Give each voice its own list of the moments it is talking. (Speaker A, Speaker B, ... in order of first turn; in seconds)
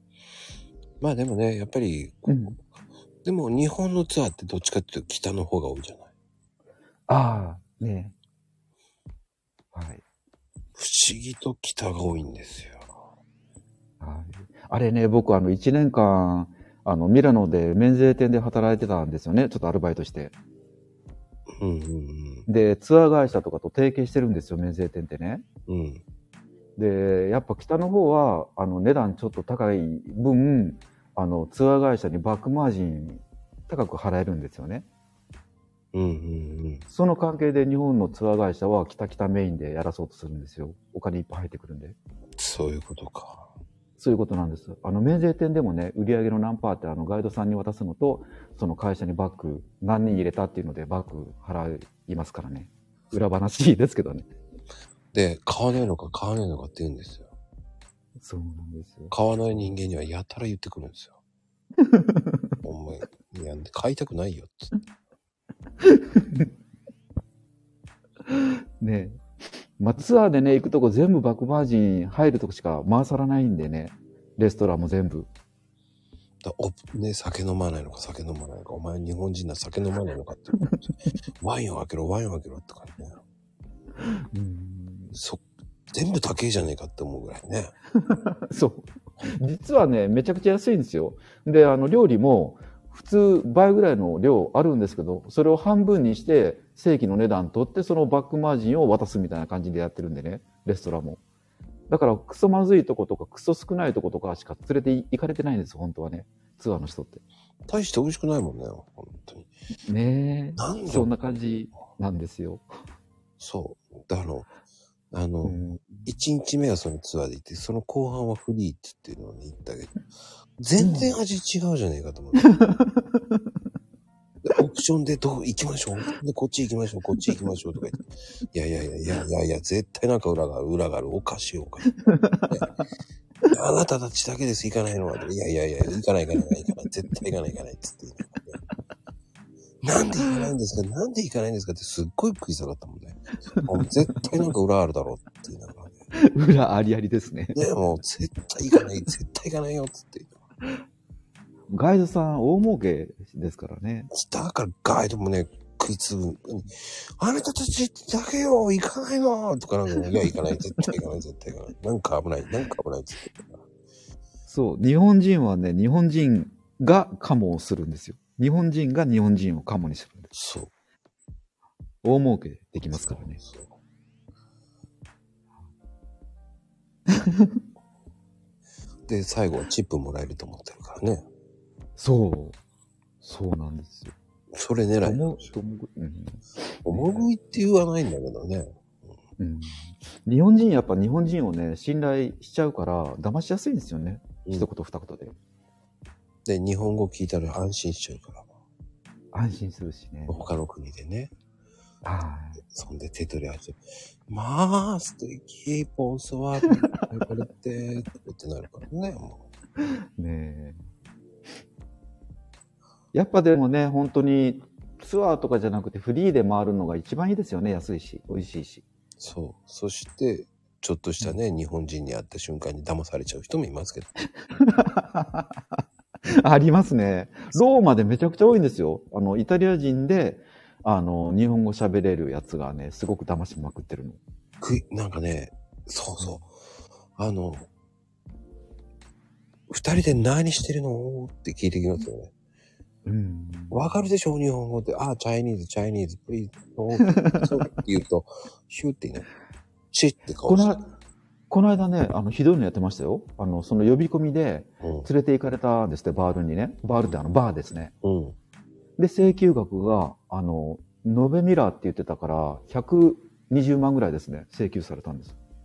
Speaker A: 1.0-2.5, 3.2-6.1, 10.8-12.9, 21.5-22.5, 25.7-26.0, 35.9-36.9, 42.4-43.5, 55.1-57.3, 59.1-61.2, 62.6-64.7, 76.4-80.8, 81.4-83.2, 85.1-87.7, 107.7-109.5, 110.6-111.1, 113.4-114.5, 115.1-120.0, 120.6-122.5, 124.4-132.7, 133.5-138.6, 139.8-146.0, 147.6-150.4, 154.1-163.6, 170.3-170.7, 172.8-173.7, 179.1-181.2, 184.5-185.5, 186.8-189.1, 196.4-198.5, 200.3-201.3, 202.7-209.4, 219.2-224.1, 234.6-236.5, 237.2-237.7, 239.7-242.3, 243.7-249.3, 249.9-250.8, 254.8-255.1, 258.0-258.4
Speaker B: 2.3-2.6, 7.1-8.1, 9.7-10.0, 14.0-20.3, 22.5-25.4, 26.8-34.9, 36.9-42.0, 44.0-54.3, 58.2-59.7, 61.9-62.4, 65.8-66.5, 68.3-69.2, 69.8-75.3, 84.0-85.1, 88.0-101.2, 101.9-107.2, 109.9-112.7, 115.4-116.1, 120.8-121.1, 122.4-123.2, 132.1-132.5, 146.3-147.7, 151.7-154.1, 164.5-170.3, 172.0-173.4, 182.0-182.6, 183.2-184.1, 185.0-187.3, 189.4-195.3, 199.3-200.4, 202.0-202.6, 210.2-210.8, 213.1-218.8, 224.6-225.5, 226.3-234.2, 243.1-244.1, 247.1-247.5, 250.5-250.9, 251.5-257.9, 259.0-265.4